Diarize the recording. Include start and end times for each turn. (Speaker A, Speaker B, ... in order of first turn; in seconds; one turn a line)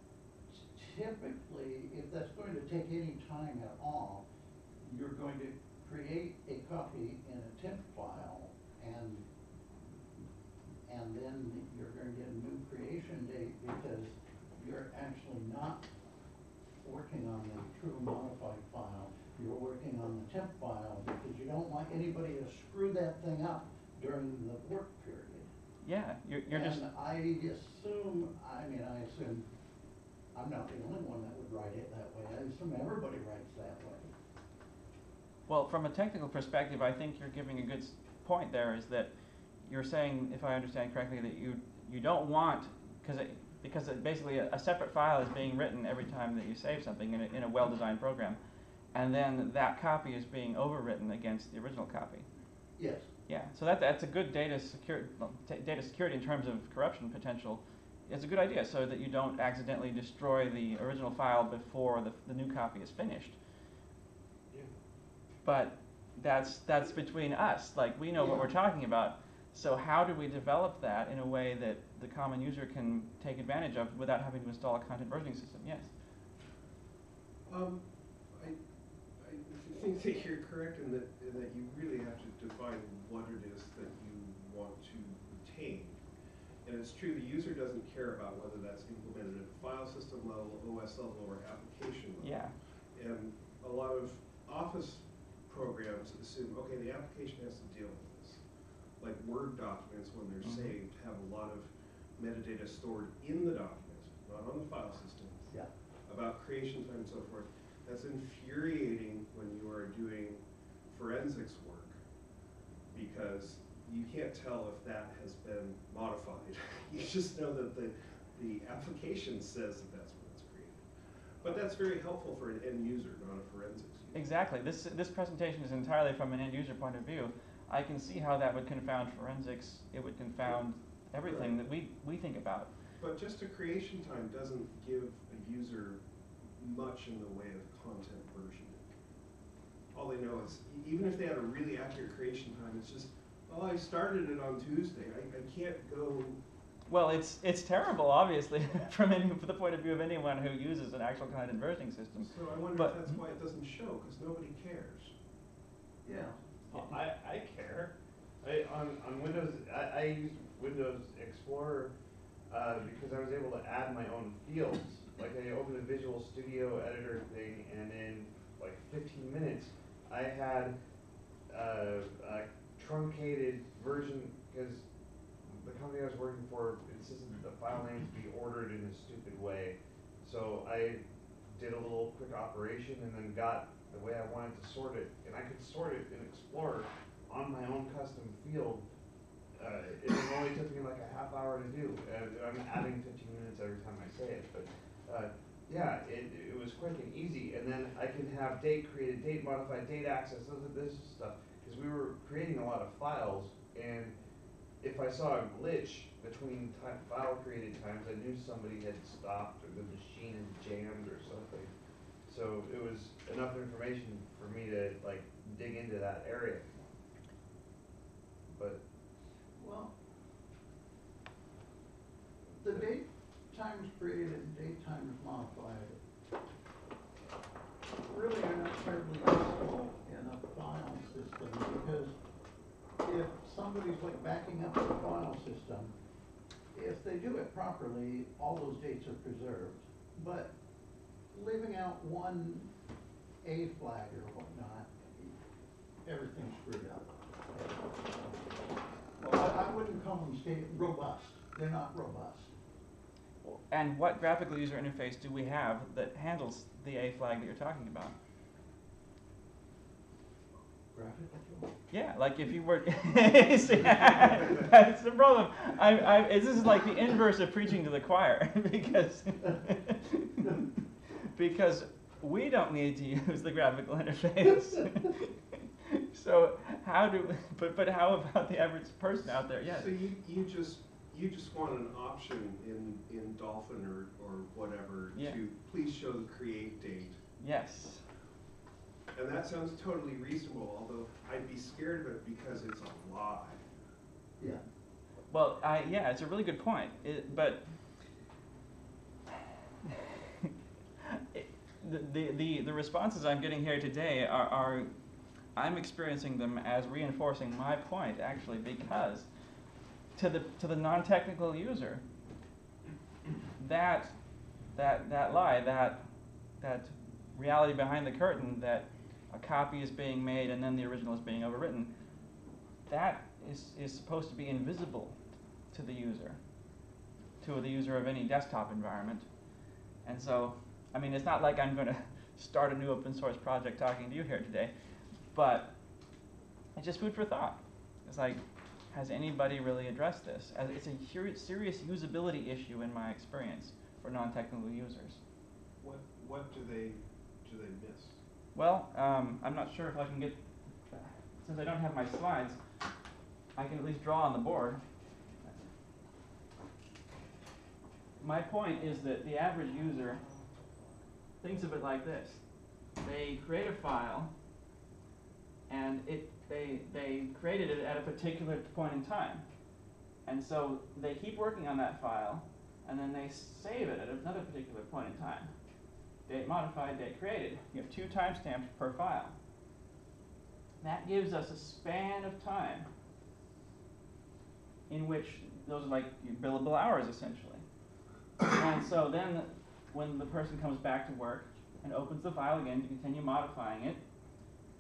Speaker A: 0.5-4.2
Speaker A: 4.8-9.3
Speaker A: 10.8-15.9
Speaker A: 16.8-25.5
Speaker B: 25.8-26.9
Speaker A: 26.5-29.5
Speaker A: 30.3-34.1
Speaker B: 35.5-39.1
Speaker B: 39.7-48.4
Speaker B: 48.9-52.3
Speaker A: 52.8-53.1
Speaker B: 53.3-63.4
Speaker B: 65.4-75.9
Speaker A: 68.2-68.5
Speaker C: 77.5-78.6
Speaker C: 79.2-86.0
Speaker C: 86.6-92.4
Speaker B: 92.2-92.5
Speaker C: 92.9-98.4
Speaker C: 99.0-105.5
Speaker B: 100.4-100.8
Speaker C: 106.1-112.0
Speaker C: 112.9-120.8
Speaker C: 121.4-124.2
Speaker B: 124.1-132.7
Speaker C: 131.2-131.6
Speaker C: 133.0-136.0
Speaker C: 136.6-138.8
Speaker C: 139.9-146.4
Speaker B: 146.9-153.2
Speaker C: 152.2-155.1
Speaker A: 156.0-156.4
Speaker D: 156.7-161.9
Speaker D: 162.5-170.8
Speaker D: 171.5-174.8
Speaker D: 175.5-188.8
Speaker D: 189.6-204.2
Speaker D: 204.8-211.7
Speaker D: 212.3-216.7
Speaker D: 218.5-218.8
Speaker A: 219.6-219.9
Speaker A: 222.6-226.0
Speaker A: 228.0-232.2
Speaker A: 233.0-235.9
Speaker A: 236.7-240.5
Speaker A: 241.3-242.7
Speaker A: 243.4-245.3
Speaker A: 246.1-248.3
Speaker A: 249.2-252.5
Speaker B: 253.4-258.1
Speaker A: 260.9-261.7
Speaker B: 261.9-270.7
Speaker B: 271.2-279.9
Speaker C: 279.6-287.2
Speaker B: 287.4-288.0
Speaker C: 289.1-293.6
Speaker A: 294.4-294.6
Speaker B: 295.3-297.6
Speaker B: 299.9-300.5
Speaker B: 301.0-304.9
Speaker B: 305.6-309.3
Speaker B: 310.2-312.0
Speaker B: 313.6-314.1
Speaker B: 314.8-316.0
Speaker B: 316.6-321.9
Speaker B: 322.9-325.2
Speaker B: 325.7-326.4
Speaker B: 327.4-329.3
Speaker B: 330.1-334.7
Speaker B: 335.3-335.7
Speaker B: 336.8-338.4
Speaker B: 338.9-345.2
Speaker C: 345.8-348.2
Speaker B: 348.6-350.4
Speaker B: 350.9-352.6
Speaker B: 353.6-354.8
Speaker B: 358.2-360.2
Speaker B: 361.4-362.4
Speaker B: 363.0-364.3
Speaker B: 365.7-369.4
Speaker B: 370.2-375.5
Speaker B: 376.3-379.4
Speaker B: 380.8-382.9
Speaker B: 384.9-387.6
Speaker B: 388.4-394.0